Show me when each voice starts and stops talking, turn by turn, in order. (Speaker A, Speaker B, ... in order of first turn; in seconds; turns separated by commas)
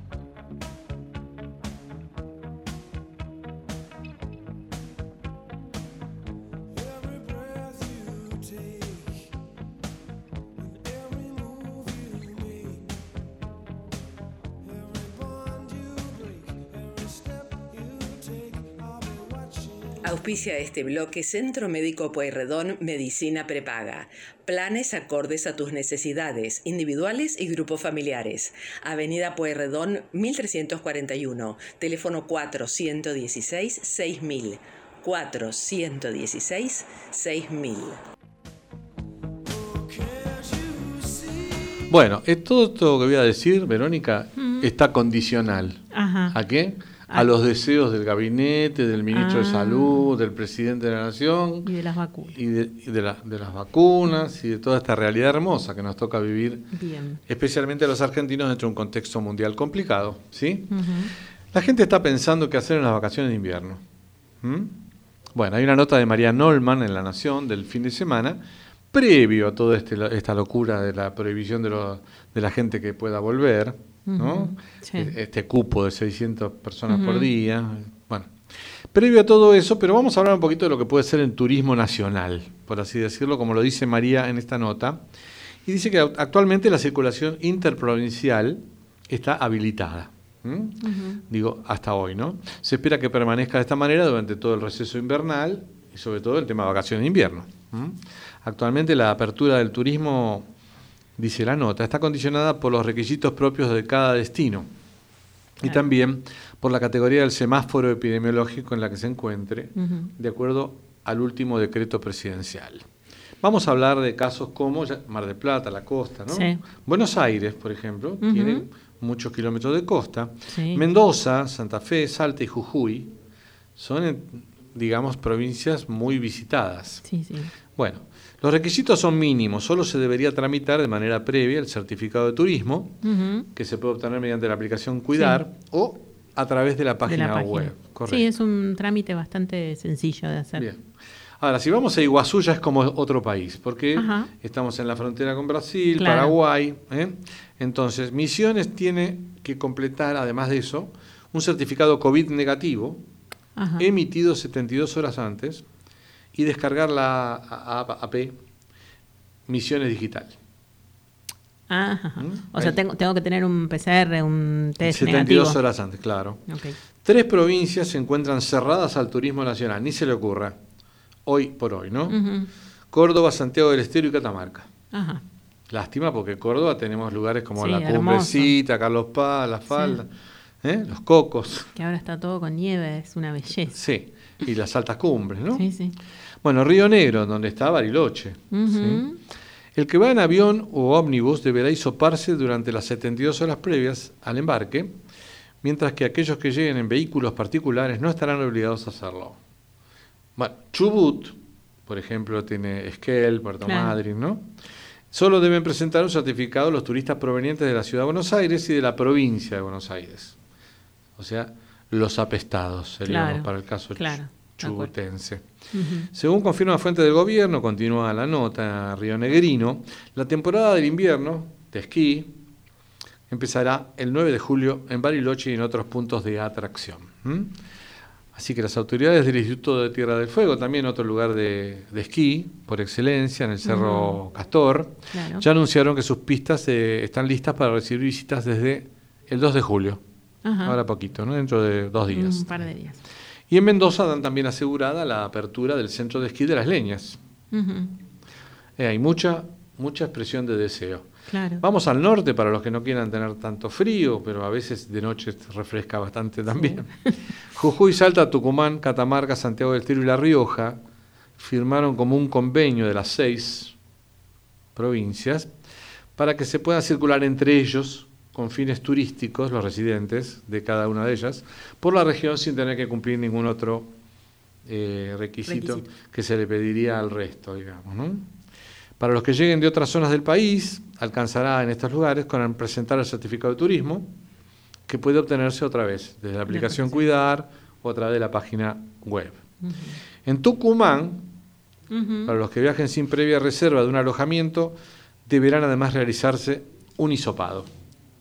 Speaker A: 20.0-38.0, Speaker B: 41.9-51.7, Speaker C: 44.4-44.7, Speaker C: 45.9-46.4, Speaker C: 49.1-50.1, Speaker C: 51.6-52.3, Speaker B: 52.3-56.7, Speaker C: 56.7-57.2, Speaker B: 57.3-60.7, Speaker C: 60.7-61.1, Speaker B: 61.5-63.8, Speaker B: 64.4-64.8, Speaker B: 65.3-78.3, Speaker C: 74.1-75.1, Speaker C: 76.9-77.3, Speaker B: 78.9-85.0, Speaker B: 85.7-100.5, Speaker C: 90.8-91.2, Speaker B: 101.2-104.7, Speaker B: 105.6-112.8, Speaker C: 109.8-110.1, Speaker B: 113.4-123.1, Speaker C: 116.3-116.6, Speaker C: 118.2-118.6, Speaker C: 120.5-120.8, Speaker B: 123.8-127.0, Speaker C: 127.0-127.5, Speaker B: 127.7-133.0, Speaker C: 133.0-133.5, Speaker B: 133.5-138.2, Speaker C: 135.1-135.4, Speaker C: 137.1-140.7, Speaker B: 140.6-140.8, Speaker B: 141.4-153.0, Speaker C: 144.0-144.3, Speaker C: 146.0-146.3, Speaker C: 153.6-153.9, Speaker B: 153.8-155.6, Speaker B: 156.3-158.3, Speaker B: 159.5-160.3, Speaker C: 161.7-165.6, Speaker B: 162.2-162.8, Speaker B: 164.8-166.4, Speaker C: 166.5-166.8, Speaker B: 167.0-170.6, Speaker B: 171.2-172.2, Speaker C: 172.1-172.5, Speaker B: 172.9-174.7, Speaker C: 174.9-175.2, Speaker B: 175.7-180.1, Speaker C: 177.6-178.5, Speaker C: 179.7-180.0, Speaker B: 180.6-181.7, Speaker C: 181.7-183.8, Speaker B: 183.7-185.7, Speaker C: 185.5-185.9, Speaker B: 186.4-189.0, Speaker C: 188.5-189.2, Speaker B: 189.8-194.9, Speaker B: 195.6-199.4, Speaker B: 200.4-201.3, Speaker B: 201.9-204.5, Speaker C: 203.6-204.0, Speaker B: 205.1-210.3, Speaker B: 211.2-215.4, Speaker C: 213.1-214.9, Speaker C: 215.7-216.1, Speaker B: 216.1-222.3, Speaker B: 223.3-227.5, Speaker B: 228.3-240.0, Speaker C: 233.6-234.2, Speaker C: 235.1-235.4, Speaker C: 240.4-240.8, Speaker B: 240.6-242.5, Speaker C: 242.1-243.0, Speaker B: 243.5-247.2, Speaker C: 247.5-247.9, Speaker B: 248.8-251.1, Speaker C: 251.3-251.6, Speaker B: 251.6-260.8, Speaker C: 256.5-256.8, Speaker B: 261.4-263.7, Speaker B: 264.8-265.5, Speaker B: 266.1-273.9, Speaker B: 274.6-278.3, Speaker C: 275.5-275.9, Speaker B: 279.0-284.1, Speaker B: 284.9-289.4, Speaker C: 286.5-287.0, Speaker C: 289.6-290.0, Speaker B: 290.2-291.3, Speaker C: 291.9-292.3, Speaker B: 292.3-294.7, Speaker B: 295.2-297.7